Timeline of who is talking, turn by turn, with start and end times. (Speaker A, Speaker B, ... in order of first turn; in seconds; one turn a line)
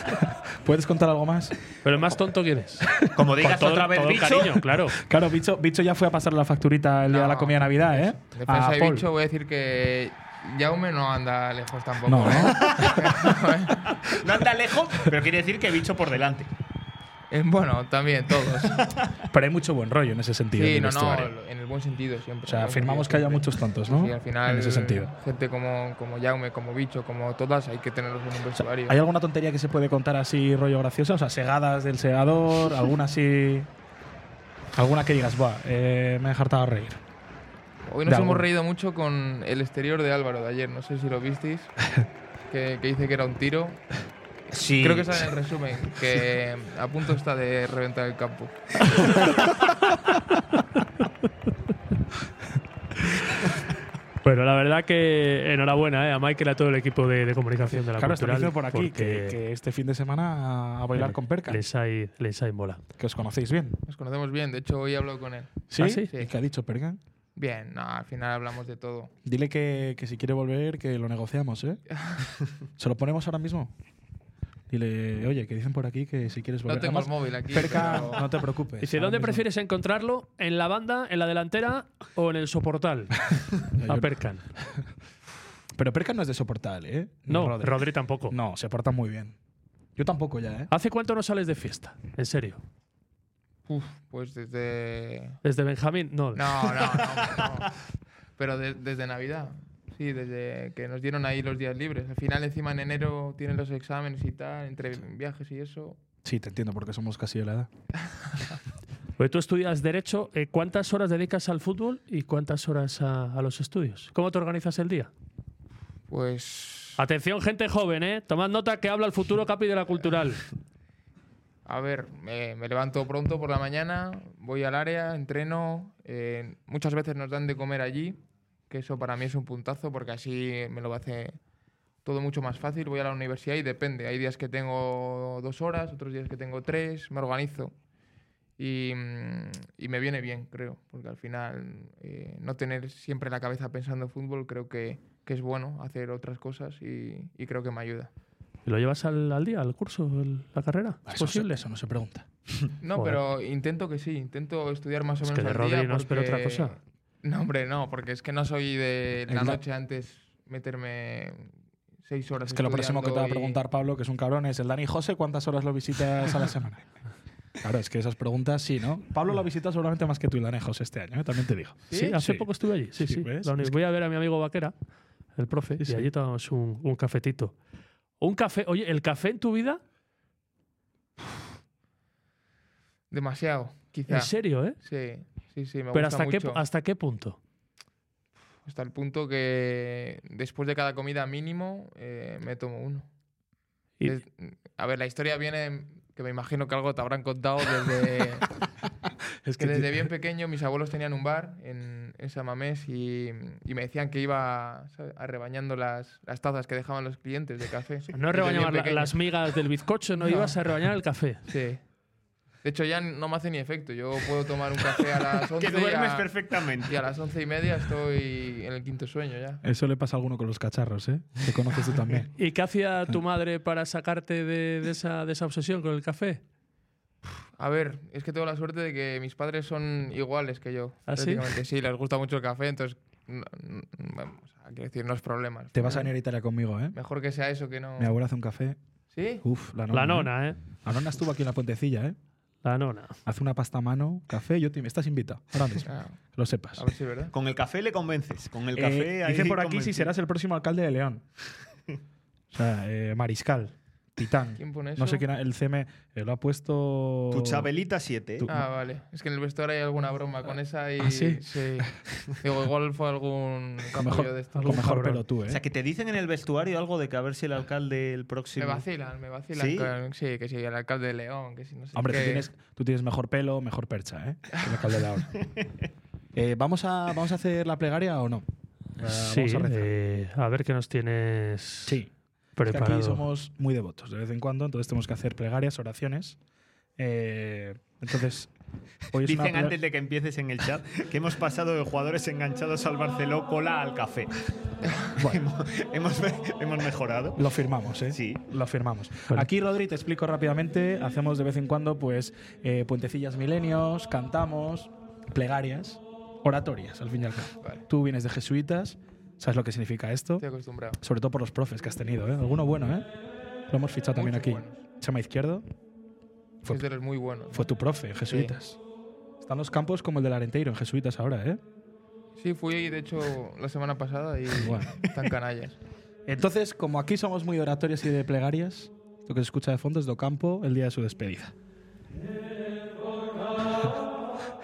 Speaker A: 0.2-1.6
Speaker B: 1.8-5.0
Speaker C: 3.1-4.6
Speaker A: 5.0-9.1
Speaker D: 7.1-14.0
Speaker A: 12.1-13.1
Speaker C: 12.5-13.0
Speaker C: 14.1-16.5
Speaker D: 17.3-18.9
Speaker A: 19.3-21.4
Speaker D: 20.5-29.0
Speaker A: 22.4-25.1
Speaker A: 28.6-33.7
Speaker A: 34.8-37.0
Speaker D: 37.9-41.8
Speaker A: 38.1-38.5
Speaker D: 42.5-43.9
Speaker C: 44.5-45.3
Speaker D: 44.8-48.9
Speaker B: 54.2-59.4
Speaker A: 57.7-61.6
Speaker B: 61.0-62.8
Speaker A: 63.0-63.8
Speaker D: 63.9-66.3
Speaker A: 65.7-67.0
Speaker B: 65.7-66.1
Speaker D: 67.4-69.1
Speaker A: 69.2-71.8
Speaker A: 72.8-73.7
Speaker A: 74.7-79.4
Speaker D: 76.7-78.3
Speaker B: 78.8-83.2
Speaker A: 83.7-84.9
Speaker B: 83.8-84.5
Speaker A: 85.8-89.4
Speaker B: 87.3-88.3
Speaker A: 90.0-90.7
Speaker B: 90.7-92.6
Speaker D: 93.7-95.4
Speaker B: 95.4-96.5
Speaker D: 96.3-97.8
Speaker D: 98.4-106.0
Speaker A: 106.2-107.7
Speaker B: 109.2-115.1
Speaker D: 116.1-117.0
Speaker B: 117.0-120.4
Speaker D: 121.7-128.2
Speaker D: 128.7-131.4
Speaker D: 132.0-137.7
Speaker D: 138.6-148.1
Speaker B: 148.7-151.6
Speaker A: 151.1-152.3
Speaker D: 152.8-161.5
Speaker B: 155.3-156.8
Speaker A: 159.3-159.6
Speaker D: 162.0-163.6
Speaker A: 162.5-166.9
Speaker A: 167.6-173.8
Speaker B: 171.9-174.7
Speaker B: 175.3-177.5
Speaker A: 175.8-176.1
Speaker B: 178.2-179.8
Speaker D: 183.1-186.6
Speaker B: 184.1-184.8
Speaker B: 185.9-187.4
Speaker D: 188.7-193.1
Speaker D: 194.1-198.6
Speaker A: 199.4-200.1
Speaker D: 199.6-209.2
Speaker B: 208.1-211.4
Speaker D: 210.2-210.6
Speaker D: 211.5-211.8
Speaker D: 212.6-216.3
Speaker C: 215.6-217.0
Speaker D: 216.8-219.6
Speaker A: 219.6-222.3
Speaker B: 222.4-226.4
Speaker D: 227.6-236.1
Speaker B: 231.1-231.4
Speaker A: 235.7-237.0
Speaker D: 236.9-238.1
Speaker A: 238.0-238.8
Speaker D: 239.1-239.4
Speaker A: 239.4-242.2
Speaker B: 239.9-240.6
Speaker B: 242.6-243.2
Speaker A: 243.3-246.8
Speaker D: 245.8-246.2
Speaker D: 246.8-247.3
Speaker C: 247.3-250.1
Speaker A: 248.8-251.2
Speaker A: 252.5-257.7
Speaker D: 254.6-255.2
Speaker C: 257.3-258.5
Speaker A: 258.4-258.7
Speaker D: 258.5-264.9
Speaker A: 261.0-261.4
Speaker A: 263.9-265.6
Speaker B: 264.5-265.2
Speaker C: 265.5-268.9
Speaker D: 268.6-272.5
Speaker C: 269.5-269.9
Speaker A: 271.9-275.4
Speaker A: 276.4-278.4
Speaker A: 279.0-279.9
Speaker B: 279.1-282.0
Speaker A: 281.9-282.1
Speaker B: 282.6-283.2
Speaker A: 282.7-286.4
Speaker A: 287.0-288.5
Speaker A: 289.1-289.8
Speaker C: 289.2-294.3
Speaker C: 294.9-297.4
Speaker A: 297.4-310.4
Speaker C: 298.1-298.4
Speaker D: 310.4-311.0
Speaker A: 311.0-313.1
Speaker A: 313.7-315.6
Speaker D: 314.1-314.8
Speaker D: 316.7-317.7
Speaker A: 317.5-318.8
Speaker D: 318.3-318.6
Speaker A: 319.4-321.6
Speaker D: 322.4-325.8
Speaker A: 324.5-324.9
Speaker A: 326.3-331.5